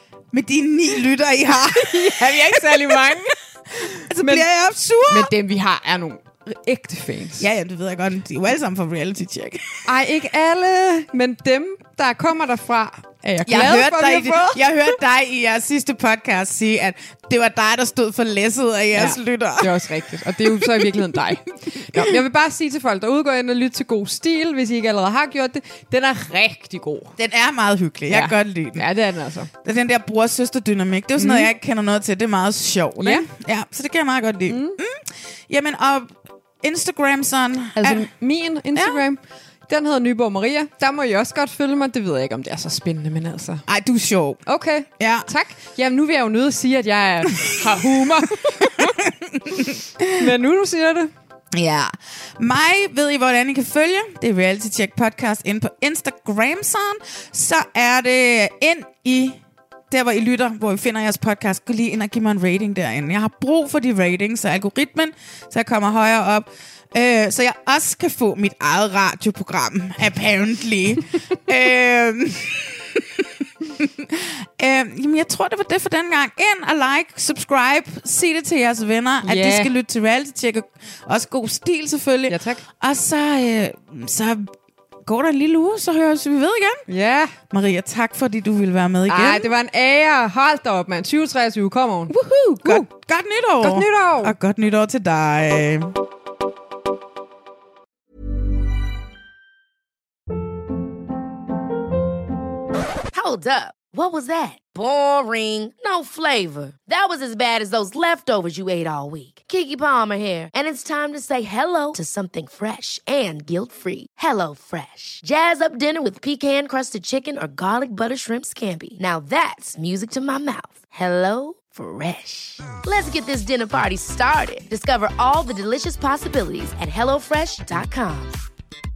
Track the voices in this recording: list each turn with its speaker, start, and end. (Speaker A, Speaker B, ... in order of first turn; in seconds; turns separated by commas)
Speaker A: 0.3-3.1, Speaker B: 1.8-4.5, Speaker A: 4.0-5.3, Speaker B: 5.1-7.5, Speaker A: 7.4-9.8, Speaker B: 9.9-14.9, Speaker A: 13.5-19.7, Speaker B: 18.9-27.1, Speaker A: 20.6-20.9, Speaker A: 27.2-28.9, Speaker B: 28.1-29.5, Speaker A: 29.6-38.1, Speaker B: 31.2-31.5, Speaker B: 33.0-33.3, Speaker B: 34.5-34.8, Speaker B: 37.8-43.6, Speaker A: 38.7-39.0, Speaker A: 43.7-44.4, Speaker B: 44.5-48.9, Speaker A: 45.0-45.3, Speaker A: 49.1-49.4, Speaker B: 49.5-51.1, Speaker A: 50.0-50.2, Speaker A: 51.5-59.4, Speaker A: 59.9-84.5, Speaker B: 79.2-79.7, Speaker B: 82.3-82.6, Speaker A: 85.0-86.8, Speaker B: 86.9-87.3, Speaker A: 87.5-89.5, Speaker B: 89.1-92.9, Speaker A: 92.1-95.9, Speaker B: 93.6-94.4, Speaker C: 103.1-128.4